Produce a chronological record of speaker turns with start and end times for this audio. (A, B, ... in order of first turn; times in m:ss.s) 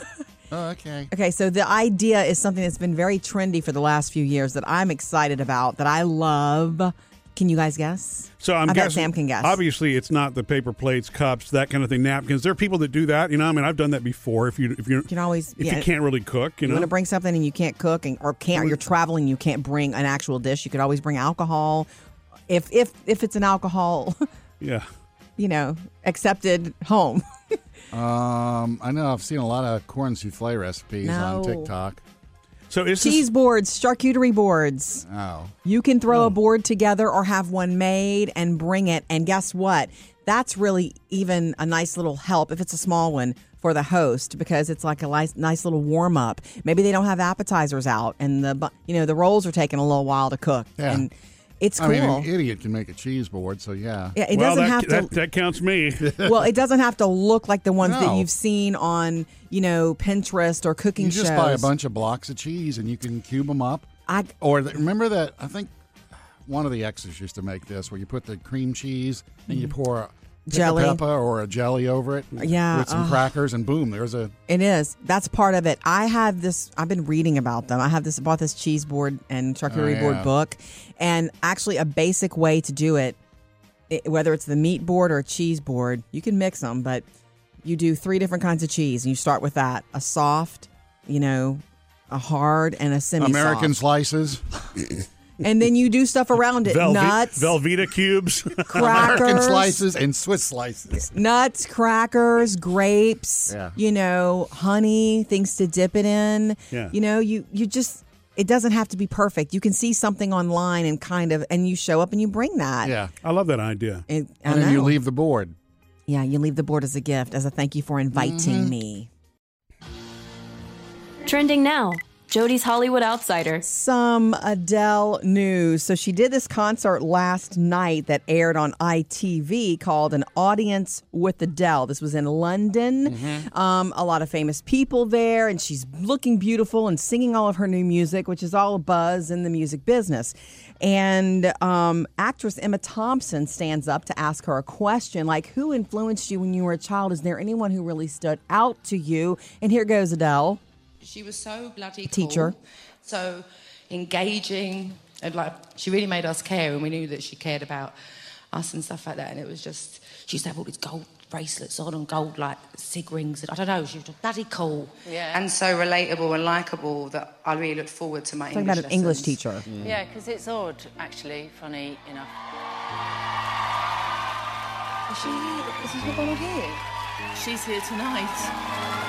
0:00.5-0:01.1 A
0:01.1-0:09.6 B
0:08.4-0:16.9 C
0:15.1-0:15.9 B
0:16.6-0:21.9 B
0:22.5-0:24.2 B
0:24.6-0:24.9 C
0:25.4-0:27.2 B
0:27.9-0:32.0 A
0:31.0-0:31.7 B
0:32.7-0:33.2 C
0:33.0-0:35.0 B
0:35.0-0:35.5 A
0:35.6-0:52.3 B
0:50.8-0:51.0 A
0:51.8-0:54.2 A
0:54.1-0:55.1 B
0:54.3-0:56.2 C
0:56.2-1:01.7 B
0:57.8-0:58.3 A
1:01.0-1:05.7 A
1:04.1-1:04.3 B
1:06.4-1:14.3 A
1:10.5-1:11.0 B
1:12.4-1:13.2 B
1:14.5-1:23.2 B
1:19.7-1:20.3 A
1:23.9-1:27.0 B
1:27.6-1:33.7 B
1:33.2-1:34.4 A
1:35.4-1:37.6 B
1:36.6-1:38.9 C
1:38.7-1:39.8 B
1:38.7-1:41.1 A
1:41.0-1:52.9 B
1:43.5-1:43.8 A
1:52.8-1:53.1 A
1:53.2-1:54.0 C
1:54.1-1:55.0 B
1:54.4-1:55.6 A
1:56.1-1:59.1 B
1:58.1-1:58.8 A
2:01.2-2:03.6 D
2:03.6-2:30.6 B
2:13.0-2:13.5 A
2:31.0-2:37.9 E
2:32.1-2:32.5 B
2:38.5-2:49.4 E
2:45.0-2:45.5 F
2:48.5-2:49.7 B
2:49.6-2:49.9 A
2:49.8-2:52.3 F
2:55.1-2:56.8 E
2:57.3-2:58.5 E